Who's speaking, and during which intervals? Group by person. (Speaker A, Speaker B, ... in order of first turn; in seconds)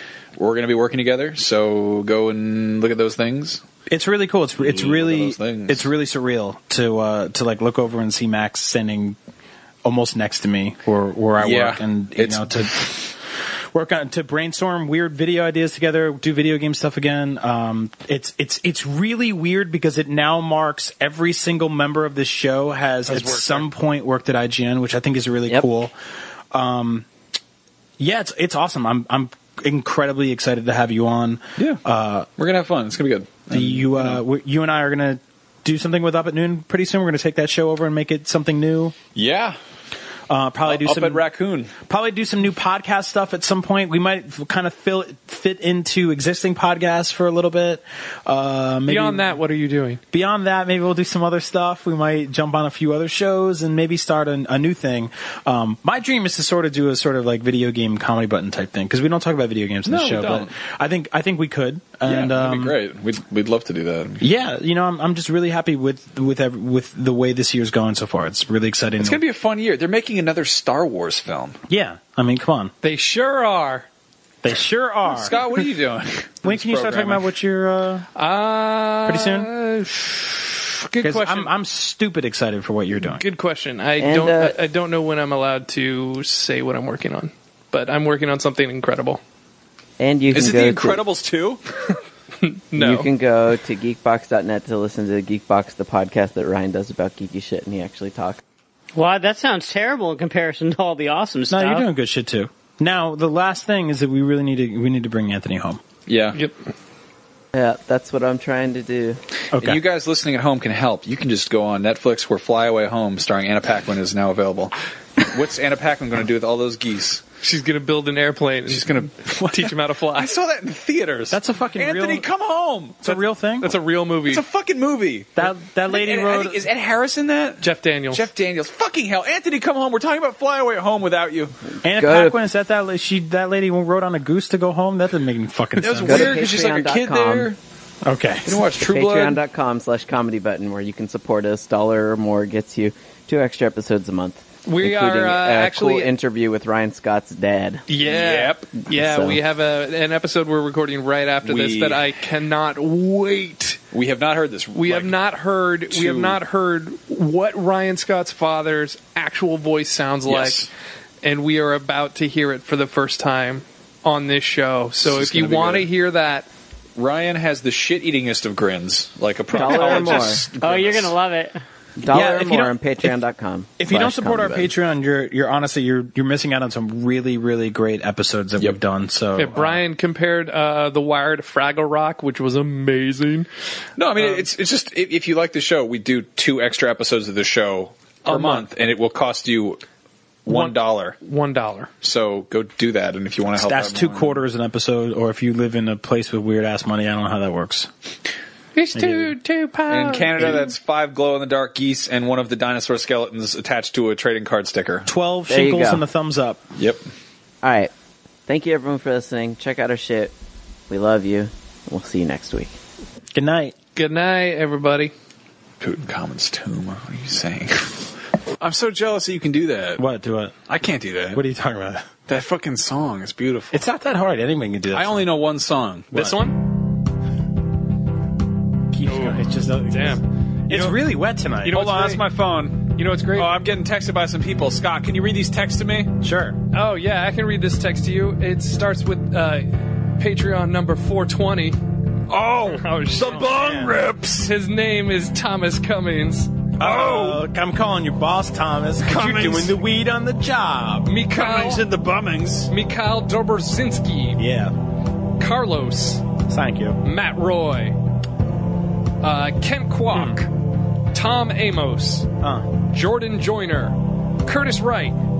Speaker A: 0.4-3.6, 4.6-5.9, 11.4-12.7, 32.4-34.2, 39.1-39.5, 40.6-41.7, 59.9-60.5, 62.0-64.3, 69.0-71.6, 75.0-77.3, 90.3-91.6, 106.1-106.4, 109.5-117.2, 118.7-123.2, 124.3-131.6, 135.8-137.6, 138.4-139.4, 148.0-148.7, 151.4-152.1, 153.9-155.2, 155.9-156.4, 160.2-160.7, 165.0-165.9, 167.0-171.1, 184.0-189.8, 190.4-191.2, 192.0-194.4, 199.9-205.1, 206.8-207.0, 215.8-218.1, 218.6-220.0, 220.7-221.4, 222.3-223.8, 224.9-226.3, 231.7-236.2, 242.3-244.5, 246.8-247.4, 249.0-249.7, 251.3-252.7
Speaker B: 3.9-9.2, 9.8-13.2, 13.7-25.9, 26.5-27.1, 28.0-32.3, 33.5-39.0, 40.3-41.2, 41.8-49.4, 50.1-62.8, 64.2-69.2, 71.7-72.7, 74.4-75.4, 76.4-78.1, 79.0-79.5, 81.0-83.2, 101.5-105.8, 109.5-109.8, 121.3-122.2, 123.0-123.7, 125.4-126.6, 131.8-136.4, 138.0-138.6, 172.1-173.2, 173.8-179.8, 193.5-197.9, 198.9-199.4, 205.1-206.6, 213.3-213.7, 220.0-220.6, 221.3-222.1, 223.7-225.3, 228.9-232.2, 236.2-236.6, 243.4-243.9, 246.8-251.1, 254.4-254.7, 256.4-257.0, 262.4-262.7
Speaker C: 23.1-23.7, 48.9-50.0, 72.8-73.9, 78.1-81.5, 83.0-89.2, 92.4-93.1, 117.4-120.3, 123.6-124.4, 127.6-128.3, 144.6-146.1, 147.9-153.8, 154.7-160.7, 161.2-166.5, 169.7-170.2, 179.4-183.5, 184.2-184.4, 188.2-188.7, 190.5-191.9, 198.7-200.7, 213.9-215.1, 226.1-226.6, 229.0-230.2, 231.7-232.2, 232.9-233.6, 236.7-241.8, 242.6-246.9, 251.0-251.9, 252.7-254.4, 255.4-256.2, 257.0-258.0, 259.2-260.5, 261.1-265.2
Speaker D: 84.0-84.5, 90.0-91.0, 92.8-98.4, 107.5-109.2, 131.8-132.4, 136.0-137.5, 138.8-147.8, 148.9-149.4, 169.5-170.4, 172.0-174.7, 205.5-206.0, 207.6-207.9, 208.5-210.3, 210.9-212.8
Speaker E: 98.9-101.9, 170.6-171.6